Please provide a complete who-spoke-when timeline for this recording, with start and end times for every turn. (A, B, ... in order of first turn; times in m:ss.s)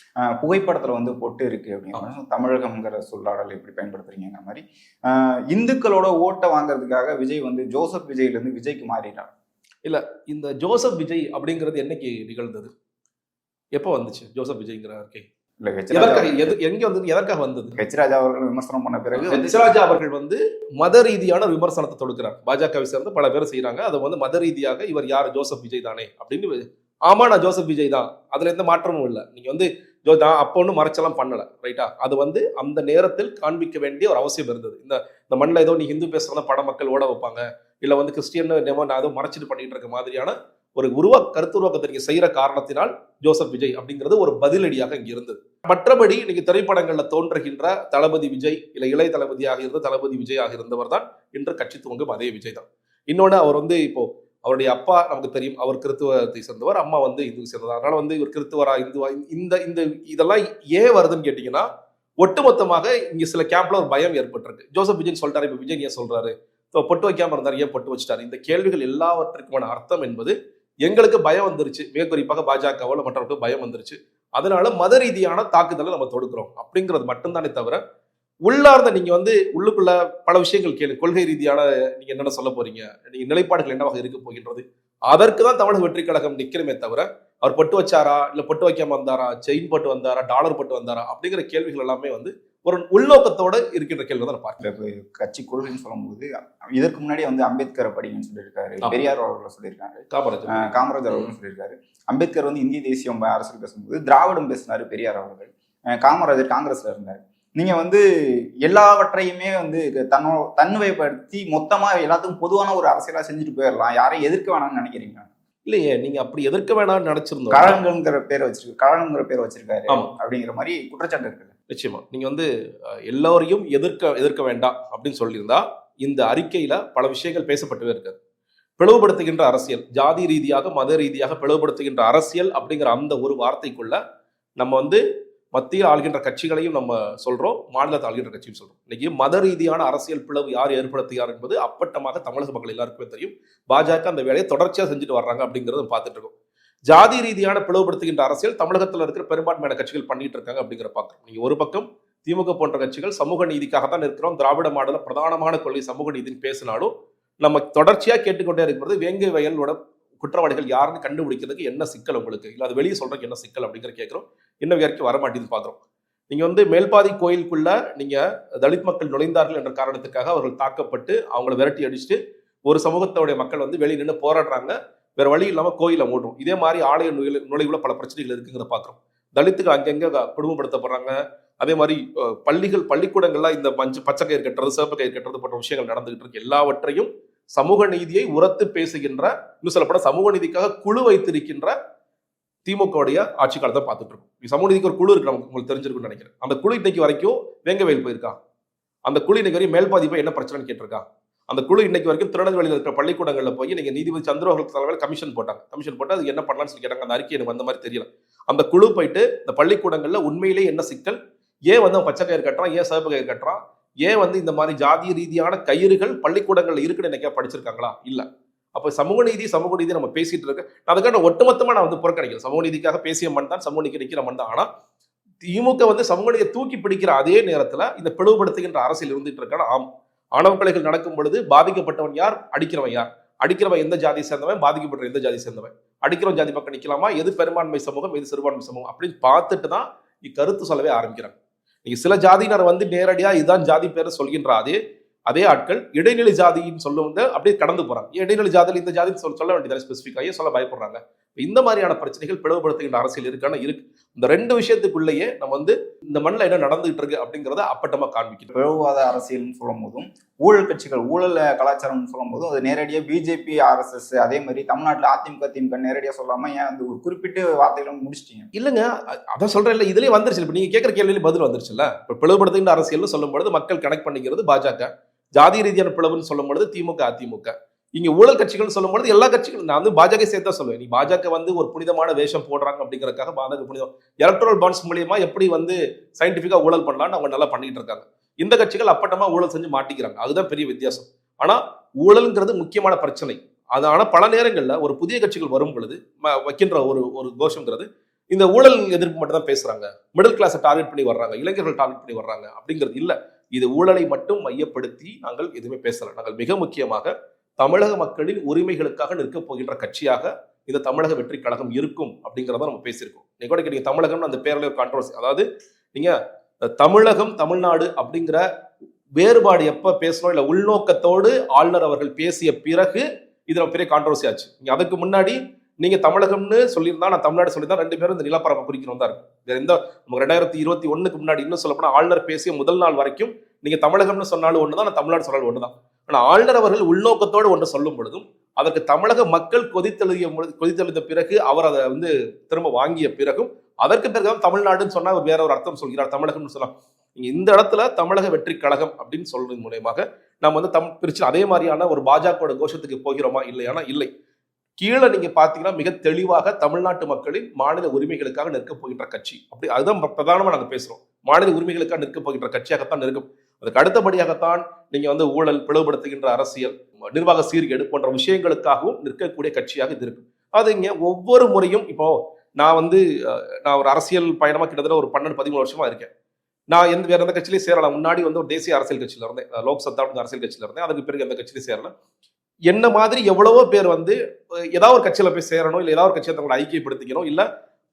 0:00.2-0:09.3 A
0:09.8-0:12.7 B
0:13.8-0:15.3 B
0:15.6-0:16.4 A
0:15.9-0:17.8 B
0:17.8-0:19.8 A
0:19.2-1:01.7 B
1:02.2-1:17.8 B
1:18.5-1:34.6 B
1:34.6-1:48.0 A
1:40.1-1:41.2 B
1:48.6-1:55.3 A
1:55.7-1:57.8 B
1:57.5-2:01.5 A
2:01.7-2:02.5 B
2:03.1-2:08.2 B
2:08.8-2:14.0 B
2:14.6-2:15.0 B
2:15.5-2:26.3 B
2:26.9-2:45.8 B
2:46.3-3:11.7 B
3:12.6-3:18.4 B
3:19.0-3:31.2 B
3:31.7-3:44.7 B
3:45.4-4:04.8 B
4:05.3-4:18.5 B
4:18.5-4:28.5 A
4:28.5-5:18.4 B
5:19.2-5:54.1 B
5:54.8-6:16.1 B
6:16.7-6:21.9 B
6:22.7-6:24.2 B
6:24.7-6:27.4 B